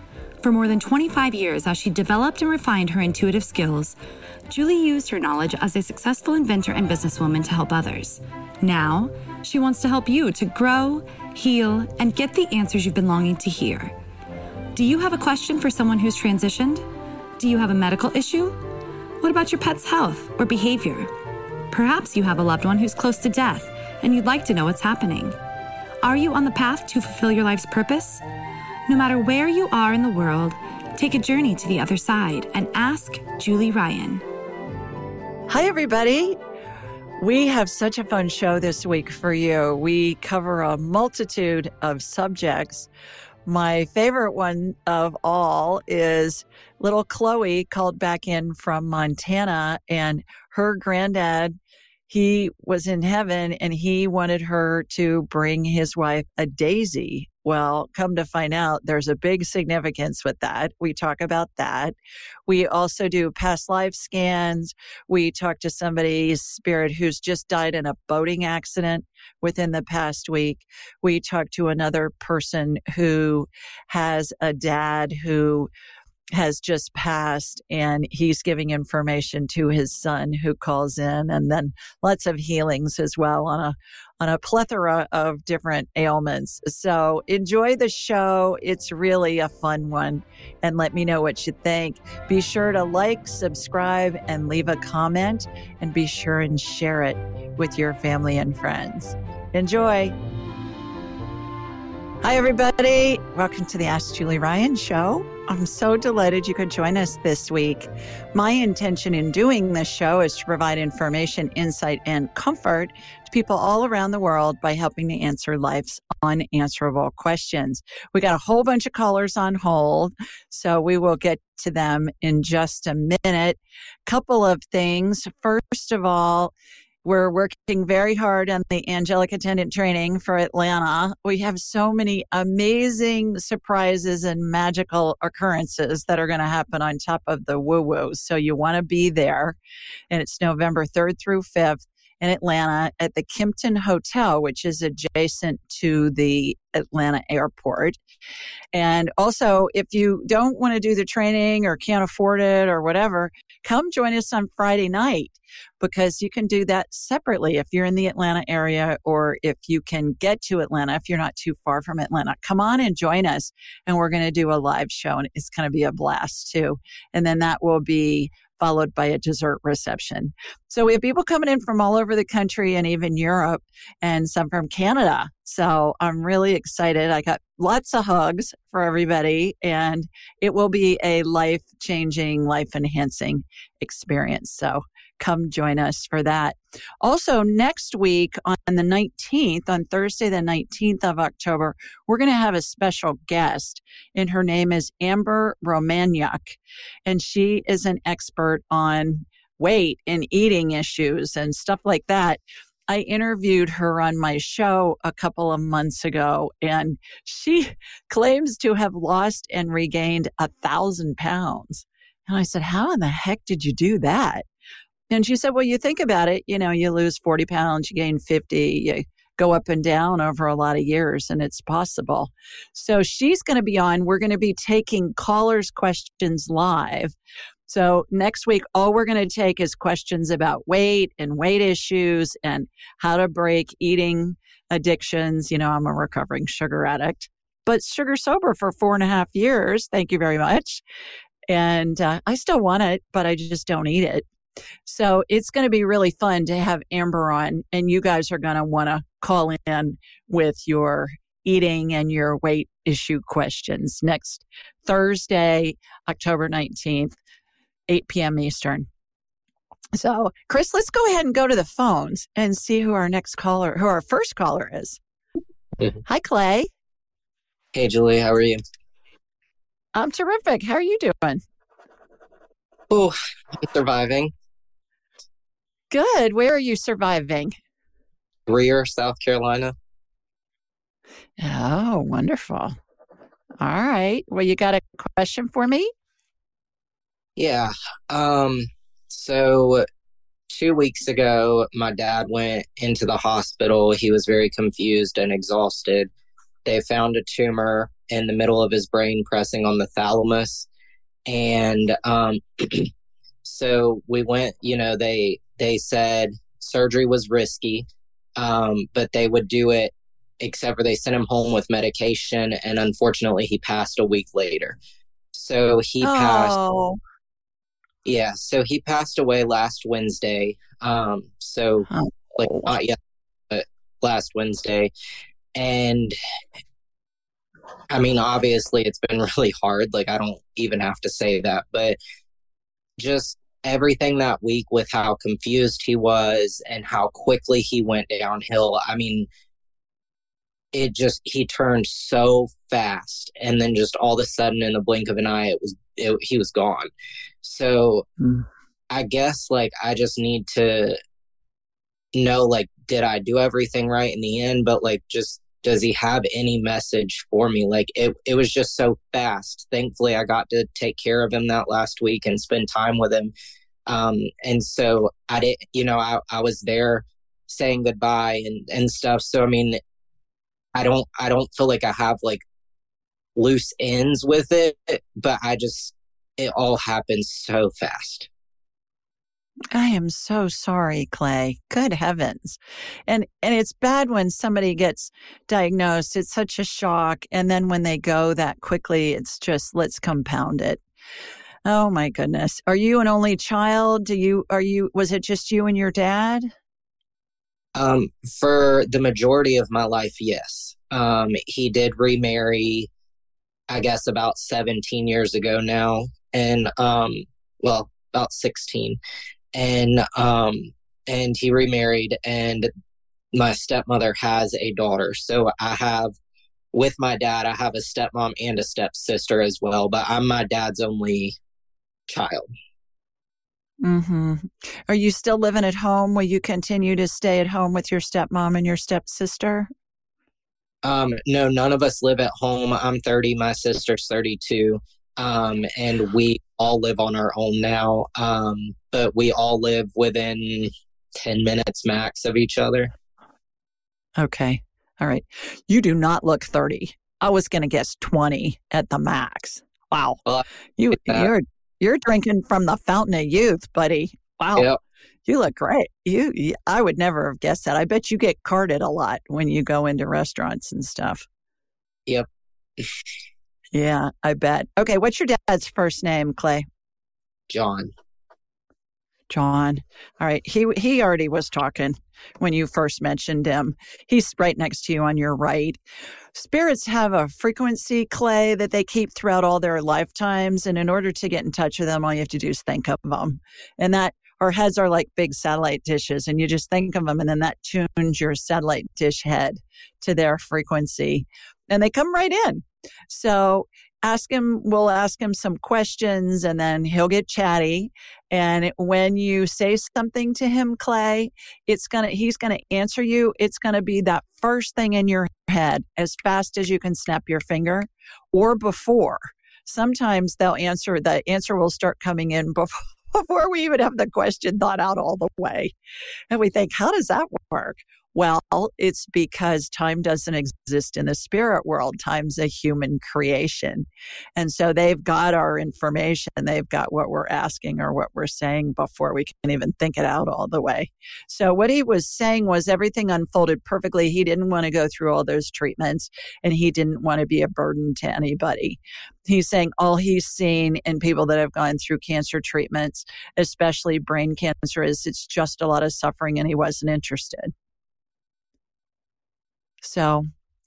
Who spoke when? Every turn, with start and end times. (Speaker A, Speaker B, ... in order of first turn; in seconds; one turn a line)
Speaker A: 0.4-4.0
Speaker A: 4.5-13.9
Speaker A: 14.8-16.8
Speaker A: 17.4-18.6
Speaker A: 19.2-21.1
Speaker A: 21.7-25.4
Speaker A: 26.0-28.2
Speaker A: 28.9-34.2
Speaker B: 35.5-36.4
Speaker B: 37.2-42.9
Speaker B: 43.5-51.6
Speaker B: 52.1-62.0
Speaker B: 62.5-75.7
Speaker B: 76.3-100.2
Speaker B: 102.2-139.6
Speaker B: 140.1-148.0
Speaker B: 148.7-214.4
Speaker B: 215.1-227.2
Speaker B: 227.7-240.8
Speaker B: 241.5-244.3
Speaker B: 244.9-257.2
Speaker B: 257.9-258.9
Speaker B: 259.9-265.0
Speaker B: 266.1-266.7
Speaker C: 267.7-268.6
Speaker B: 269.9-271.4
Speaker C: 272.9-274.3
Speaker B: 275.9-277.6
Speaker C: 278.5-279.7
Speaker B: 281.4-282.8
Speaker B: 283.6-285.9
Speaker C: 287.4-289.9
Speaker C: 290.5-296.1
Speaker C: 296.6-300.7
Speaker C: 301.3-302.9
Speaker C: 303.4-314.8
Speaker C: 315.3-316.6
Speaker B: 316.0-317.0
Speaker C: 318.1-321.9
Speaker B: 321.9-322.7
Speaker C: 322.4-323.0
Speaker C: 323.5-324.9
Speaker C: 325.6-326.2
Speaker C: 327.9-332.0
Speaker C: 333.0-339.3
Speaker C: 340.7-346.9
Speaker C: 347.4-348.1
Speaker C: 348.9-351.0
Speaker C: 352.1-363.3
Speaker C: 363.9-369.8
Speaker C: 370.8-372.4
Speaker C: 373.4-378.3
Speaker B: 379.7-390.8
Speaker B: 391.6-396.5
Speaker C: 397.8-402.9
Speaker C: 403.7-409.0
Speaker C: 409.5-412.7
Speaker C: 413.3-416.1
Speaker C: 416.7-421.4
Speaker C: 422.1-422.5
Speaker B: 423.8-429.7
Speaker C: 430.8-442.9
Speaker B: 444.2-450.2
Speaker C: 450.3-451.3
Speaker B: 450.8-454.7
Speaker B: 455.3-461.2
Speaker B: 463.7-466.7
Speaker C: 467.5-467.9
Speaker B: 469.3-475.8
Speaker B: 476.3-515.8
Speaker B: 516.3-547.5
Speaker B: 549.8-550.3